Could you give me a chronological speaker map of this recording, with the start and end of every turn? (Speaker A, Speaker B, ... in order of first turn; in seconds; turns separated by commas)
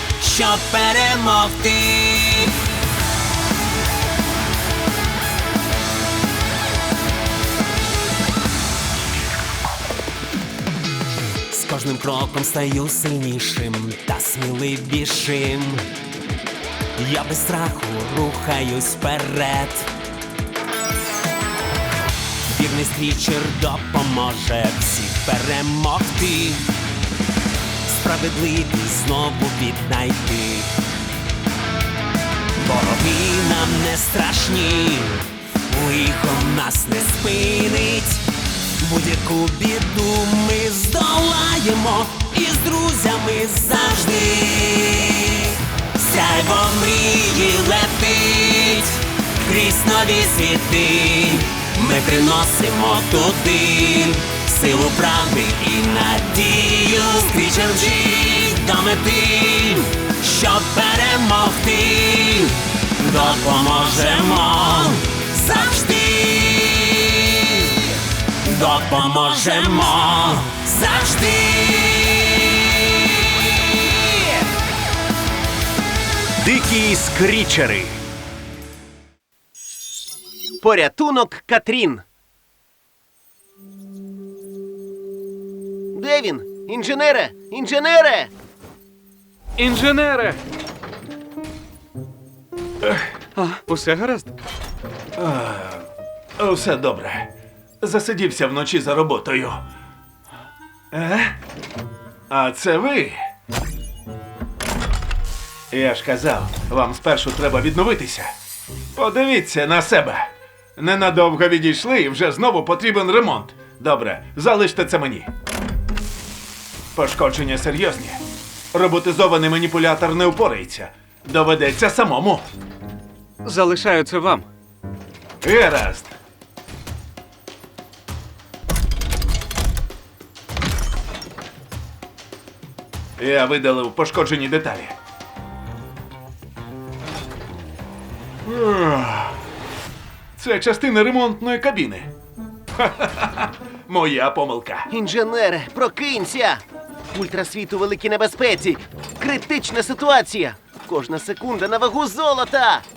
Speaker A: 0.2-2.5, Speaker A: 11.5-15.8, Speaker A: 17.0-19.9, Speaker A: 22.5-26.7, Speaker A: 27.9-30.7, Speaker A: 32.6-38.2, Speaker A: 38.8-73.4, Speaker B: 76.4-78.0, Speaker B: 80.6-82.0, Speaker B: 85.9-88.3, Speaker C: 89.6-90.4, Speaker C: 93.3-94.3, Speaker D: 95.2-95.8, Speaker D: 96.4-97.3, Speaker D: 97.8-99.6, Speaker D: 100.9-101.3, Speaker D: 102.3-103.2, Speaker D: 105.7-108.3, Speaker D: 108.9-115.3, Speaker D: 116.9-122.5, Speaker C: 123.4-124.5, Speaker D: 125.4-126.1, Speaker D: 133.2-134.9, Speaker D: 138.4-139.4, Speaker D: 140.4-142.1, Speaker D: 142.8-144.9, Speaker B: 144.9-152.8